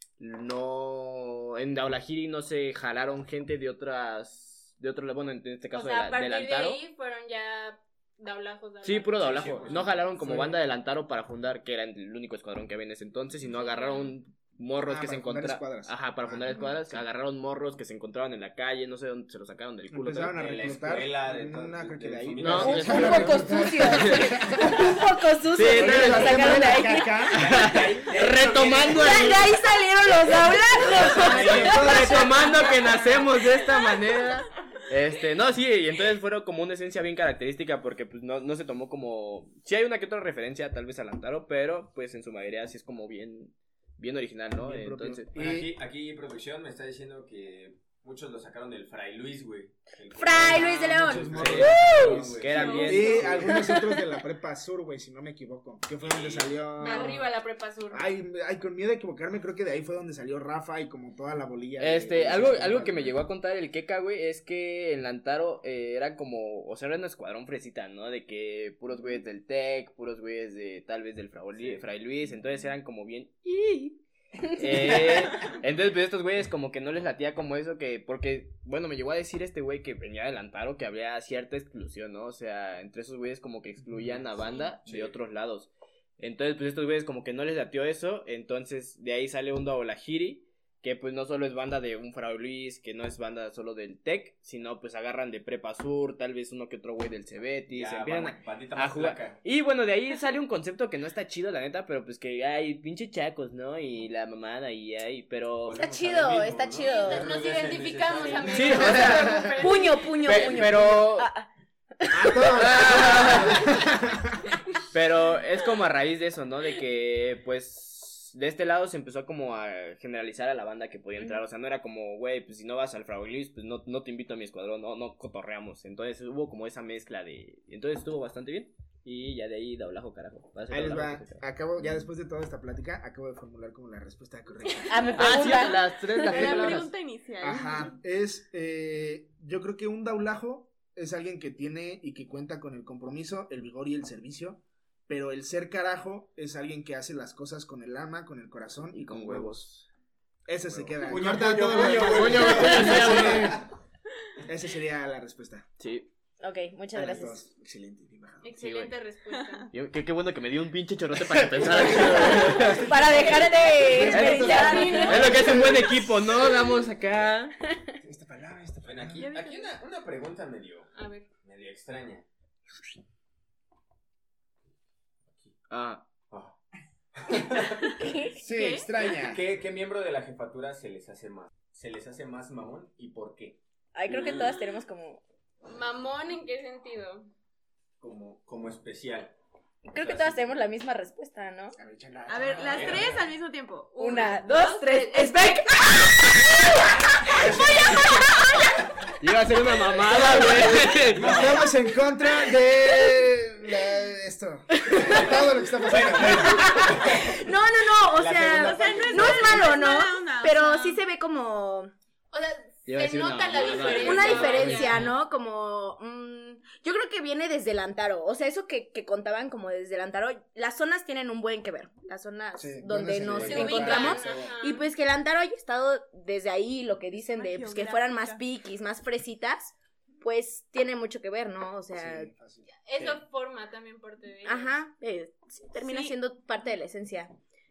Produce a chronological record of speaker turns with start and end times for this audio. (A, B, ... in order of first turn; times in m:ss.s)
0:00.2-0:06.8 A
0:05.7-0:09.7 B
0:08.8-0:21.0 A
0:09.2-0:10.2 C
0:10.2-0:10.6 D
0:13.6-0:14.1 B
0:14.8-0:17.0 D
0:19.9-0:25.0 D
0:20.4-0:23.5 C
0:22.4-0:24.4 A
0:22.7-0:27.6 E
0:25.6-0:26.6 A
0:25.7-0:27.5 D
0:27.4-0:29.3 C
0:27.4-0:29.5 A
0:28.9-0:33.1 E
0:30.5-0:45.3 A
0:31.0-0:33.1 D
0:31.4-0:31.7 C
0:44.6-0:45.7 D
0:45.3-0:53.6 C
0:50.2-0:52.2 E
0:50.5-0:57.3 D
0:51.3-0:53.6 A
0:52.5-0:53.2 F
0:53.5-0:54.0 E
0:56.0-0:56.6 C
0:56.8-0:58.1 B
0:57.9-1:03.2 D
1:01.8-1:13.9 A
1:11.6-1:11.8 C
1:13.5-1:13.7 E
1:14.5-1:45.8 A
1:14.8-1:15.2 C
1:24.8-1:25.2 C
1:37.7-1:39.4 C
1:45.6-1:49.2 C
1:45.8-1:47.4 E
1:46.8-1:50.8 B
1:48.5-1:49.6 A
1:48.7-1:51.5 E
1:48.7-1:49.4 D
1:50.2-1:51.3 A
1:52.0-1:53.6 E
1:52.1-1:54.4 D
1:52.5-1:53.8 A
1:54.9-2:11.4 A
2:10.7-2:15.3 D
2:14.9-2:16.6 E
2:15.2-2:16.9 A
2:15.5-2:17.9 F
2:16.3-2:16.9 D
2:17.4-2:29.6 D
2:28.9-2:29.9 A
2:30.5-2:33.7 D
2:30.7-2:33.6 C
2:31.1-2:33.6 A
2:34.4-2:35.7 D
2:35.8-2:36.1 A
2:36.4-2:37.4 E
2:36.9-2:38.5 D
2:38.4-2:39.7 B
2:38.6-2:38.9 A
2:39.3-2:39.7 F
2:39.7-2:42.9 A
2:41.5-2:45.9 D
2:41.6-2:42.8 C
2:42.8-2:46.4 E
2:44.0-2:47.6 A
2:44.4-2:45.2 B
2:44.7-2:45.1 F
2:48.0-2:49.3 D
2:48.8-2:50.9 C
2:49.2-2:49.8 F
2:50.9-2:51.3 B
2:51.4-2:52.2 C
2:55.7-2:56.1 A
2:56.3-2:56.6 C
2:57.2-2:57.9 C
2:58.0-2:58.4 E
2:58.4-2:59.0 F
2:58.4-2:59.4 D
2:59.0-3:04.5 C
3:04.0-3:05.2 E
3:05.6-3:07.3 B
3:08.0-3:09.4 C
3:09.9-3:10.4 C
3:09.9-3:11.8 E
3:11.8-3:13.0 D
3:12.3-3:14.0 F
3:12.5-3:13.3 C
3:14.0-3:15.8 B
3:14.0-3:18.9 E
3:17.3-3:18.2 C
3:17.4-3:18.0 D
3:19.2-3:21.4 A
3:20.1-3:20.9 E
3:21.1-3:21.7 C
3:21.2-3:27.0 D
3:24.9-3:25.3 C
3:24.9-3:25.3 E
3:25.9-3:27.4 C
3:26.3-3:31.9 E
3:28.1-3:29.6 C
3:28.7-3:31.0 F
3:32.3-3:35.1 B
3:32.9-3:35.1 A
3:33.5-3:35.0 C
3:34.0-3:52.3 E
3:42.6-3:44.5 D
3:43.4-3:44.9 B
3:47.1-3:48.4 F
3:51.9-3:53.2 D
3:52.9-3:54.8 B
3:54.4-3:57.3 E
3:55.8-3:56.2 F